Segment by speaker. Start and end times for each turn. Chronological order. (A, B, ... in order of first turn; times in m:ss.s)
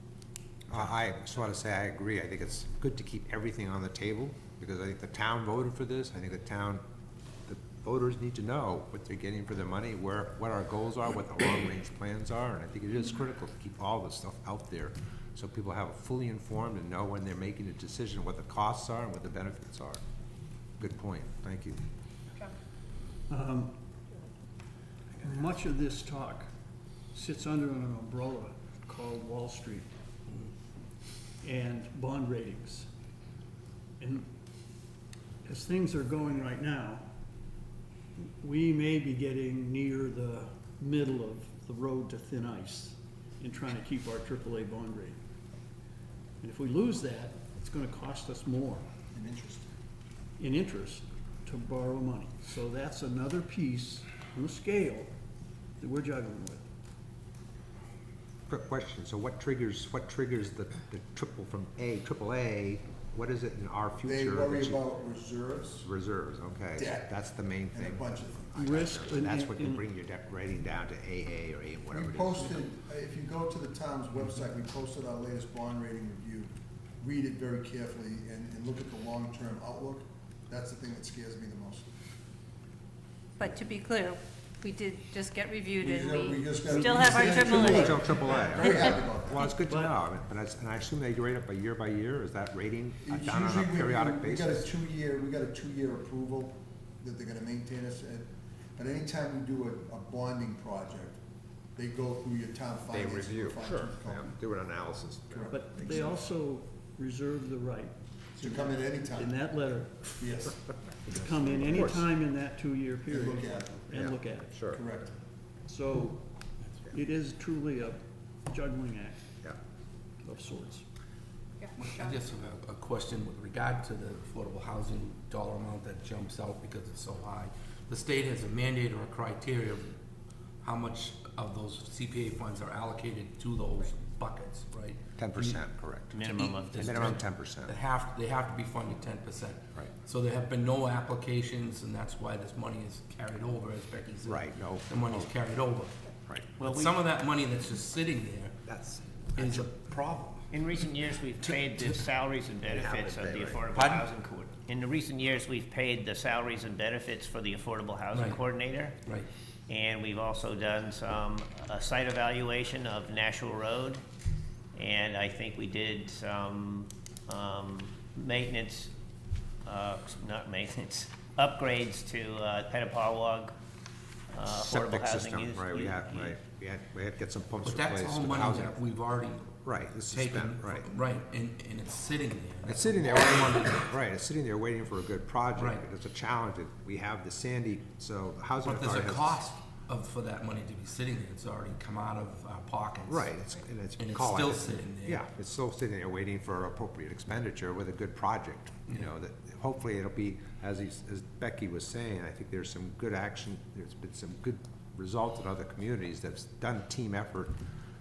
0:00.7-0:06.8 A
0:07.5-0:20.0 A
0:20.8-0:21.8 A
0:23.3-0:23.8 B
0:25.1-0:26.5 B
0:27.1-0:29.9 B
0:31.4-0:32.9 B
0:34.0-0:34.3 B
0:35.4-0:37.0 B
0:38.2-0:45.2 B
0:46.4-0:48.8 B
0:49.1-0:49.7 C
0:50.4-0:55.1 B
0:55.8-0:56.6 B
0:58.5-1:04.8 A
1:04.0-1:05.9 C
1:05.8-1:12.6 A
1:06.8-1:07.1 C
1:07.7-1:08.8 C
1:08.6-1:09.8 B
1:11.9-1:21.9 C
1:23.4-1:28.9 D
1:25.8-1:29.9 C
1:26.7-1:27.4 B
1:27.4-1:34.7 A
1:33.0-1:41.2 C
1:41.7-1:44.3 C
1:42.9-1:45.4 A
1:45.3-1:46.1 C
1:45.5-1:50.1 B
1:48.4-1:49.3 C
1:50.1-1:50.6 C
1:51.1-1:54.5 B
1:51.7-1:52.0 A
1:53.1-1:54.1 C
1:53.9-1:54.8 A
1:54.6-1:55.1 C
1:55.6-1:56.2 B
1:56.9-1:59.2 B
2:00.2-2:00.8 B
2:01.8-2:10.0 E
2:10.6-2:15.6 E
2:15.2-2:16.1 A
2:16.1-2:17.1 F
2:16.2-2:25.9 E
2:16.8-2:17.7 A
2:24.2-2:25.3 A
2:26.6-2:28.5 E
2:26.6-2:27.0 F
2:28.6-2:30.4 A
2:29.4-2:29.9 E
2:30.5-2:39.0 F
2:31.7-2:32.0 E
2:32.6-2:33.6 A
2:33.7-2:34.0 E
2:38.1-2:38.4 E
2:39.0-2:39.3 E
2:39.7-2:44.0 F
2:44.7-2:48.9 F
2:49.6-2:53.5 F
2:54.3-2:56.4 F
2:54.5-2:58.8 A
2:57.6-2:59.5 E
2:59.6-3:00.9 A
3:00.1-3:03.8 E
3:02.6-3:09.4 A
3:05.6-3:05.8 E
3:08.6-3:13.3 E
3:13.1-3:27.6 A
3:14.0-3:15.2 E